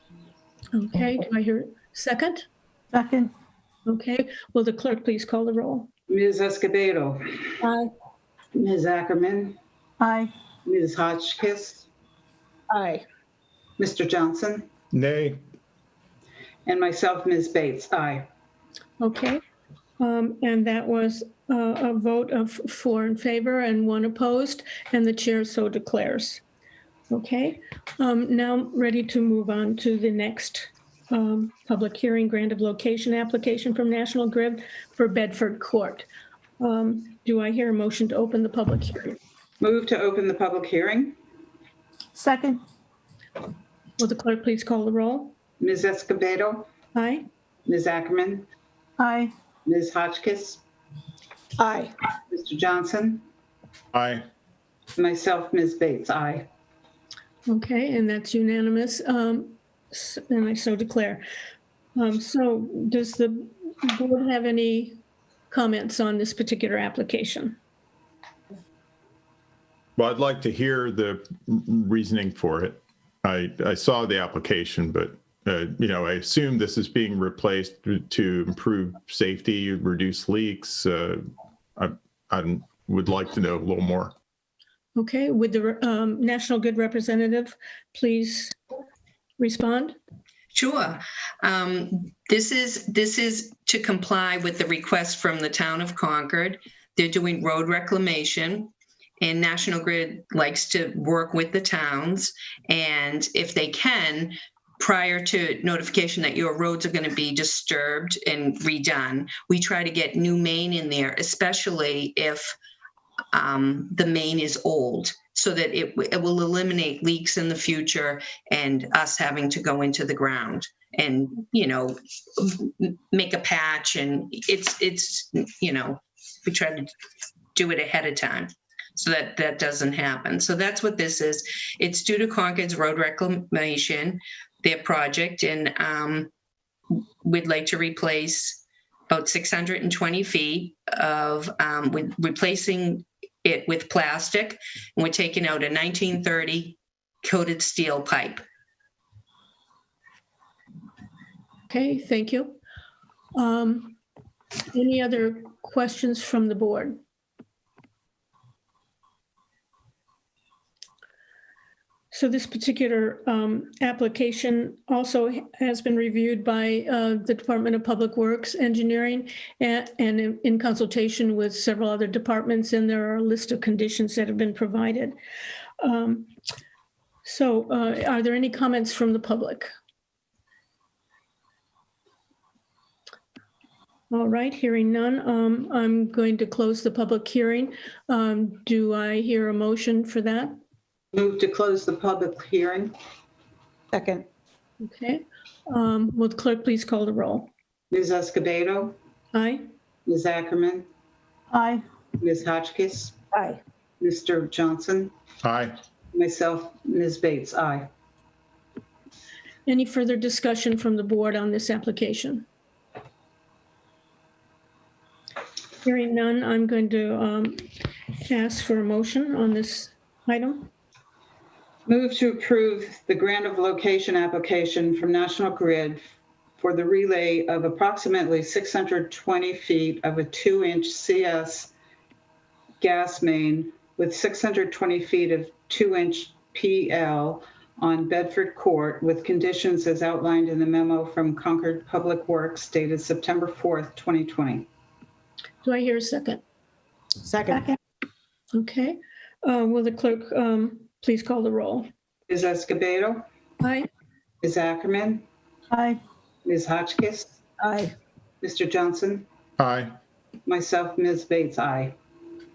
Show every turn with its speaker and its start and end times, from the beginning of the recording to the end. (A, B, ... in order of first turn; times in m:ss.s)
0:00.8-0:02.4 A
0:02.9-0:03.3 B
0:03.9-0:05.9 A
0:06.1-0:07.6 C
0:08.5-0:09.6 C
0:10.0-0:10.3 B
0:10.6-0:11.9 C
0:13.8-0:14.7 C
0:14.9-0:15.4 D
0:16.6-0:18.3 C
0:19.0-0:19.4 A
0:20.0-0:26.4 A
0:27.1-0:36.0 A
0:36.6-0:39.2 A
0:39.6-0:41.2 C
0:42.1-0:42.6 B
0:44.0-0:45.4 A
0:45.6-0:46.7 C
0:47.0-0:47.2 A
0:47.6-0:48.5 C
0:49.0-0:49.3 B
0:49.6-0:50.6 C
0:51.6-0:51.9 B
0:52.3-0:53.2 C
0:53.9-0:54.2 D
0:55.0-0:56.5 C
0:57.5-1:01.2 A
1:02.0-1:04.9 A
1:05.5-1:07.4 A
1:10.0-1:21.2 D
1:21.8-1:24.1 D
1:25.0-1:27.4 A
1:27.9-1:28.4 A
1:29.4-1:29.8 A
1:30.5-1:52.6 E
1:53.3-2:06.9 E
2:07.5-2:16.3 E
2:16.9-2:28.4 E
2:31.7-2:32.6 A
2:33.4-2:34.0 A
2:34.8-2:36.9 A
2:42.1-2:55.1 A
2:55.8-2:56.2 A
2:57.2-2:59.6 A
3:04.1-3:10.5 A
3:11.1-3:12.9 C
3:13.9-3:14.2 B
3:14.8-3:17.5 A
3:17.9-3:19.0 C
3:19.3-3:19.6 A
3:20.0-3:20.9 C
3:21.5-3:21.8 B
3:22.2-3:23.2 C
3:23.3-3:23.6 B
3:24.0-3:25.1 C
3:25.4-3:25.8 D
3:26.1-3:27.9 C
3:29.7-3:32.4 A
3:35.8-3:37.5 A
3:38.2-3:40.7 A
3:41.9-3:51.7 C
3:52.8-4:04.7 C
4:05.6-4:06.4 A
4:07.2-4:07.7 B
4:08.5-4:11.9 A
4:12.3-4:13.2 C
4:14.4-4:15.2 C
4:15.7-4:16.0 B
4:16.4-4:17.4 C
4:17.6-4:17.9 B
4:18.4-4:19.3 C
4:19.6-4:19.9 D
4:20.5-4:22.0 C